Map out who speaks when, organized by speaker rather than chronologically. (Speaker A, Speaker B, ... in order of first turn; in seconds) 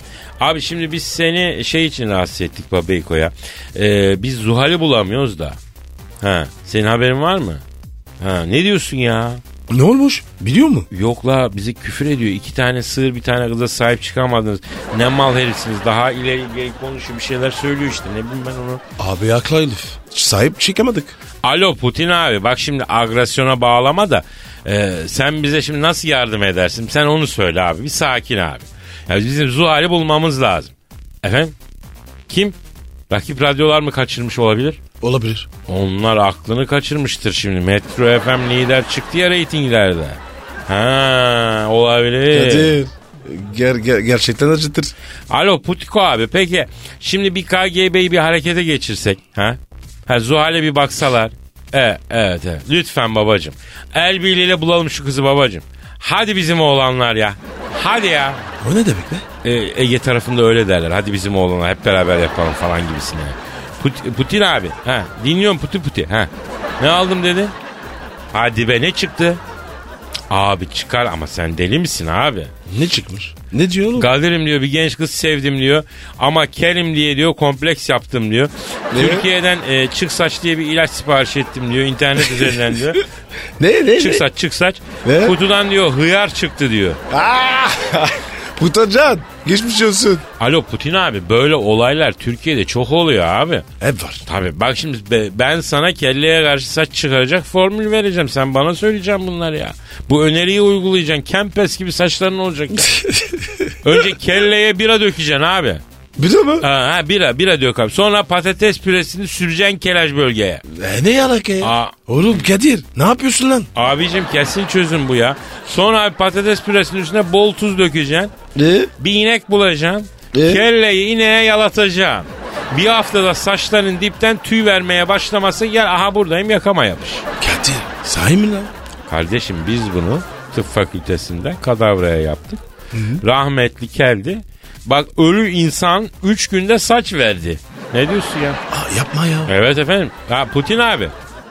Speaker A: 0.4-5.6, 6.2-7.6, 8.2-9.4, 10.9-18.8, 21.4-31.6, 32.3-32.6, 33.1-34.8, 35.7-42.8, 45.3-58.4, 59.4-67.5, 68.3-69.4, 70.3-72.5, 74.0-83.0, 84.0-87.0, 90.4-93.7, 94.3-103.1, 103.8-105.8, 106.6-110.6, 111.6-112.5, 113.8-118.3, 119.0-127.3, 129.1-132.6, 133.2-138.6, 139.5-141.1
Speaker B: 9.7-10.9, 19.0-21.2, 35.0-35.5, 42.3-44.9, 58.6-59.3, 72.7-74.1, 78.9-79.3, 83.6-84.2, 85.0-85.4, 87.1-90.2, 93.8-94.2, 102.9-103.8, 106.2-106.7, 110.7-113.7, 118.5-118.9, 120.3-120.6, 127.4-128.7, 132.9-133.2, 138.7-139.5